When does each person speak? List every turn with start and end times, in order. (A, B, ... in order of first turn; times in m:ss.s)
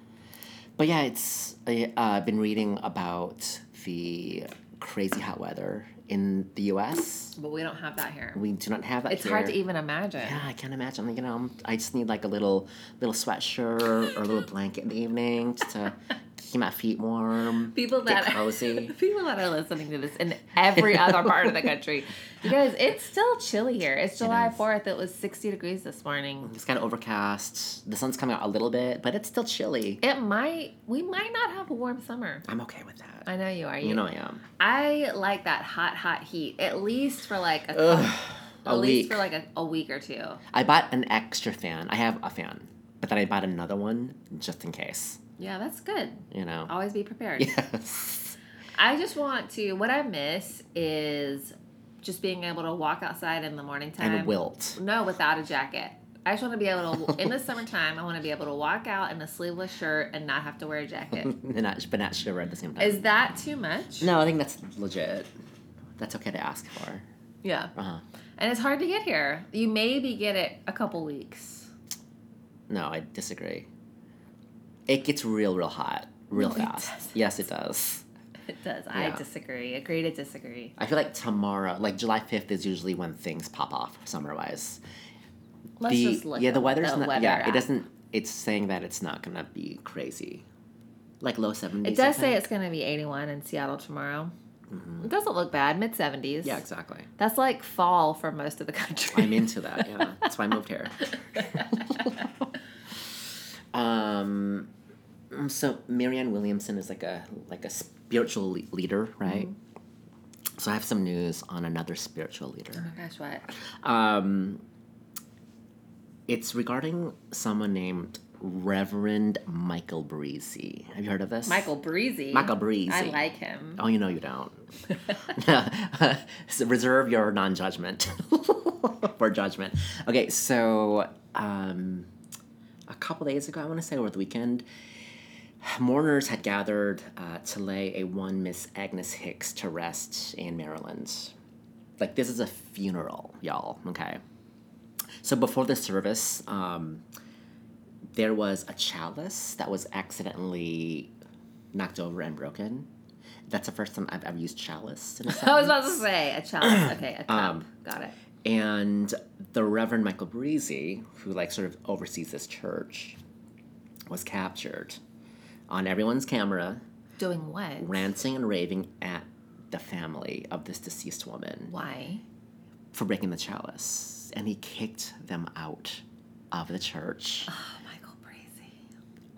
0:00.8-0:07.4 A
0:07.4-0:08.4 B
0:08.3-0:09.6 A
0:09.1-0:10.4 B
0:10.2-0:18.9 A
0:17.7-0:26.5 B
0:24.2-0:24.6 A
0:26.4-0:30.0 A
0:30.0-0:32.4 B
0:32.4-0:33.3 A
0:33.2-0:34.0 B
0:33.8-0:34.4 A
0:34.6-0:40.4 B
0:37.7-0:39.2 A
0:40.5-0:45.2 A
0:45.4-0:47.6 B
0:46.3-0:46.7 A
0:47.4-0:48.4 A
0:48.8-1:01.3 B
0:54.0-0:54.8 A
1:01.2-1:03.0 A
1:02.8-1:04.1 B
1:04.0-1:05.3 A
1:06.0-1:07.0 A
1:07.4-1:07.7 B
1:07.7-1:08.0 A
1:08.4-1:11.7 B
1:12.7-1:13.7 A
1:14.9-1:18.0 A
1:16.3-1:17.2 B
1:18.4-1:20.7 B
1:18.9-1:19.2 A
1:20.8-1:24.8 A
1:25.8-1:27.6 B
1:25.8-1:30.4 A
1:31.2-1:32.4 A
1:31.8-1:34.3 B
1:34.7-1:35.1 A
1:35.0-1:36.6 B
1:36.4-1:37.1 A
1:37.2-1:40.2 B
1:39.1-1:42.2 A
1:41.3-1:42.2 B
1:43.7-1:44.7 A
1:45.3-1:49.5 A
1:49.3-1:49.5 B
1:50.6-1:52.9 A
1:52.7-1:53.4 B
1:53.8-1:54.6 A
1:56.3-2:01.7 A
2:01.4-2:03.8 B
2:02.3-2:03.2 A
2:03.8-2:04.6 A
2:05.1-2:12.1 A
2:12.9-2:14.6 A
2:15.6-2:21.3 A
2:22.0-2:24.2 A
2:25.2-2:27.0 A
2:28.1-2:31.1 A
2:31.7-2:32.9 A
2:33.5-2:36.0 A
2:35.3-2:38.2 B
2:36.6-2:37.6 A
2:38.4-2:43.2 A
2:44.1-2:45.0 A
2:45.7-2:46.8 A
2:47.2-2:48.0 B
2:47.8-2:51.7 A
2:51.7-2:52.2 B
2:52.9-2:57.5 A
2:57.5-2:58.7 B